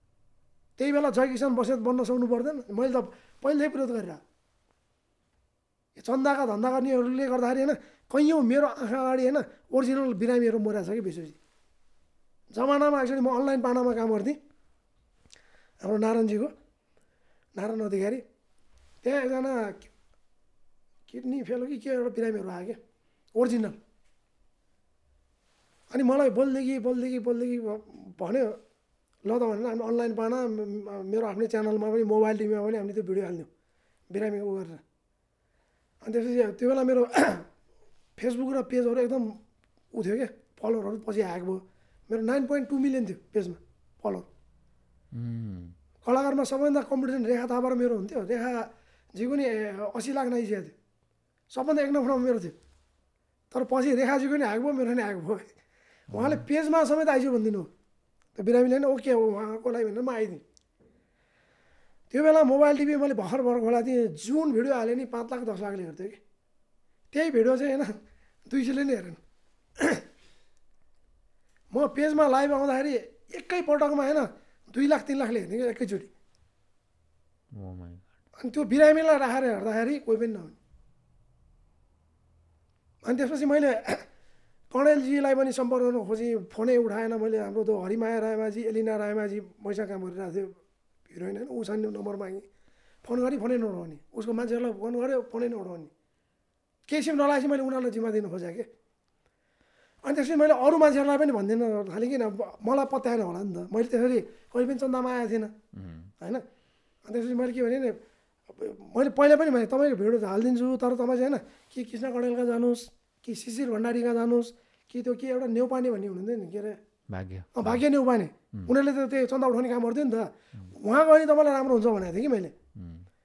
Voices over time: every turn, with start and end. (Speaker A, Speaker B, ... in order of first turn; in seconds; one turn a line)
Speaker A: 0.8-4.2
Speaker A: 6.0-11.4
Speaker A: 12.5-14.4
Speaker A: 15.8-16.5
Speaker A: 17.6-18.2
Speaker A: 19.0-19.9
Speaker A: 21.1-22.8
Speaker A: 23.4-23.8
Speaker A: 25.9-28.6
Speaker A: 29.3-33.5
Speaker A: 34.1-34.8
Speaker A: 36.0-37.5
Speaker A: 38.2-39.4
Speaker A: 39.9-44.3
Speaker B: 45.1-45.7
Speaker A: 46.0-50.8
Speaker A: 51.5-52.5
Speaker A: 53.5-55.5
Speaker A: 56.1-57.7
Speaker B: 56.1-56.4
Speaker A: 58.4-60.4
Speaker A: 62.1-66.2
Speaker A: 67.1-68.0
Speaker A: 68.5-69.2
Speaker A: 71.7-76.1
Speaker B: 77.5-78.1
Speaker A: 78.4-80.5
Speaker A: 83.0-84.0
Speaker A: 84.7-90.5
Speaker A: 91.1-92.5
Speaker A: 93.0-95.9
Speaker A: 96.9-98.7
Speaker A: 100.0-105.5
Speaker B: 105.7-106.1
Speaker A: 107.0-108.0
Speaker A: 108.5-116.8
Speaker B: 117.1-117.8
Speaker A: 117.5-122.5
Speaker B: 122.8-123.1